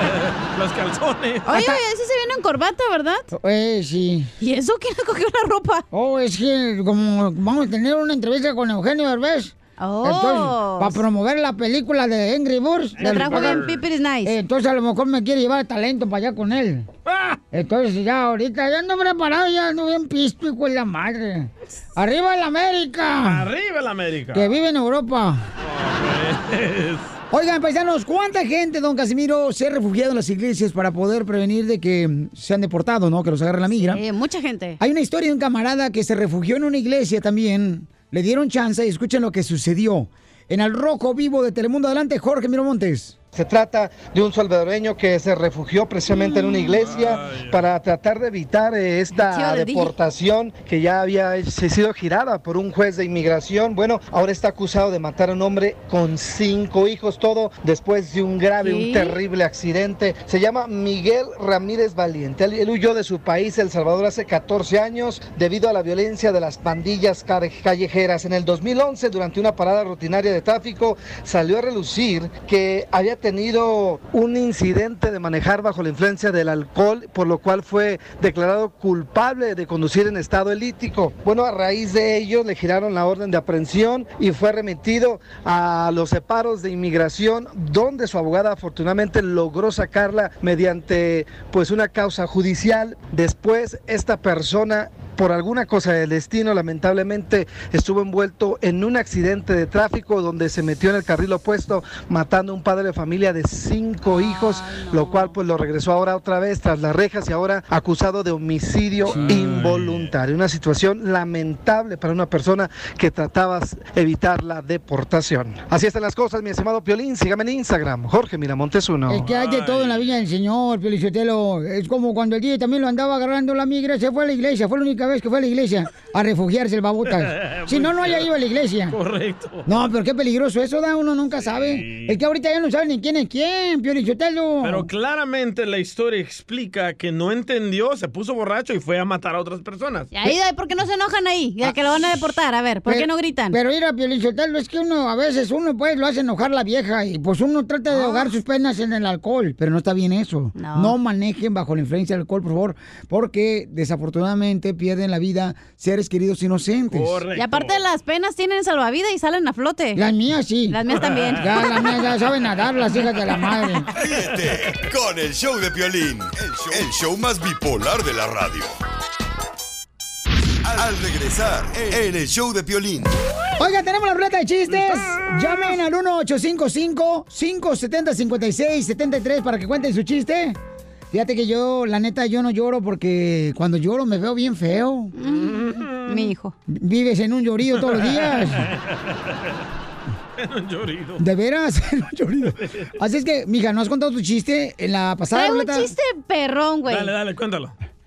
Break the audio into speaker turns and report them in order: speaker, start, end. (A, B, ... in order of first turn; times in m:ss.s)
0:00.5-0:01.6 A
0:01.5-0:03.3 B
0:01.5-0:01.8 C
0:03.3-0:04.3 C
0:04.4-0:05.8 B
0:05.9-0:13.7 C
0:09.8-0:11.0 B
0:13.0-0:13.8 A
0:13.0-0:14.4 B
0:14.2-0:16.9 C
0:17.1-0:17.4 A
0:17.5-0:23.5 C
0:23.2-0:24.5 A
0:24.3-0:25.5 C
0:25.6-0:27.1 A
0:27.3-0:34.0 C
0:33.8-0:34.8 B
0:34.8-0:43.2 C
0:43.3-1:59.2 D
0:46.1-0:46.6 B
0:46.8-0:47.6 A
0:49.1-0:50.0 B
0:58.6-0:59.2 B
1:44.1-1:45.4 B
1:49.0-1:50.1 A
1:59.1-2:09.0 C
1:59.2-2:00.1 A
2:07.1-2:08.3 A
2:08.9-2:09.7 A
2:09.7-2:14.9 C
2:11.4-2:12.2 A
2:14.6-2:20.1 A
2:20.1-2:23.6 B
2:21.6-2:22.1 C
2:22.9-2:37.2 C
2:28.1-2:28.3 B
2:30.6-2:31.0 B
2:36.9-2:37.8 A
2:37.3-2:40.0 B
2:40.0-2:40.8 C
2:40.7-2:41.8 B
2:41.0-2:41.7 A
2:41.4-2:43.9 C
2:43.9-2:48.8 E
2:50.6-2:53.1 E
2:53.6-3:00.6 C
3:01.1-3:05.1 C
3:05.2-3:06.5 B
3:05.3-3:06.3 A
3:06.7-3:08.7 C
3:07.8-3:08.8 A
3:10.4-3:11.2 A
3:11.2-3:15.9 C
3:15.3-3:17.1 B
3:16.9-3:17.8 A